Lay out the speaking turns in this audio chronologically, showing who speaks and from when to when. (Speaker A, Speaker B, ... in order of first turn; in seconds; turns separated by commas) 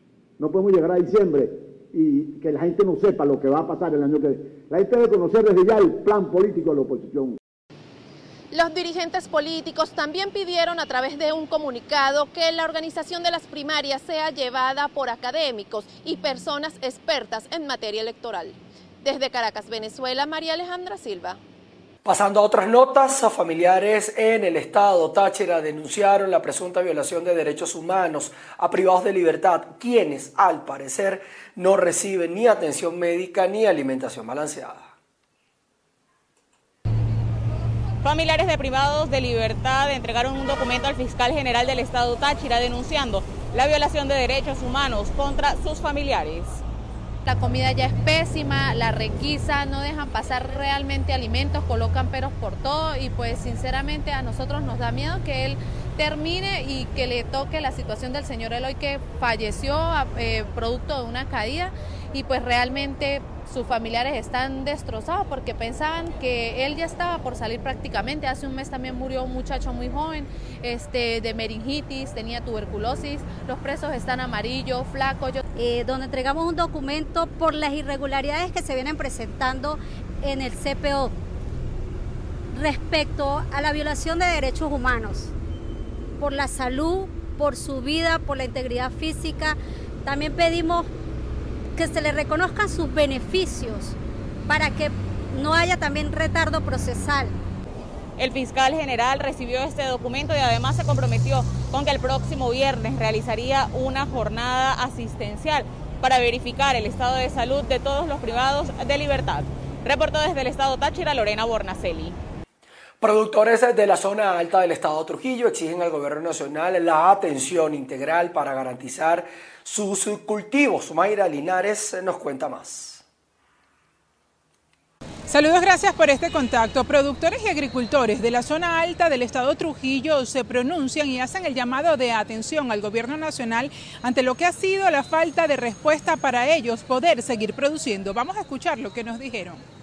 Speaker A: 0.4-7.4, Speaker B: 8.5-21.4, Speaker C: 22.0-34.9, Speaker D: 38.0-46.6, Speaker E: 47.3-75.2, Speaker D: 47.4-75.4, Speaker F: 75.6-81.1, Speaker F: 82.5-85.3, Speaker F: 86.2-89.5, Speaker F: 90.0-90.9, Speaker F: 91.8-93.9, Speaker F: 94.5-97.3, Speaker D: 98.2-112.2, Speaker C: 113.0-123.0, Speaker G: 125.3-139.6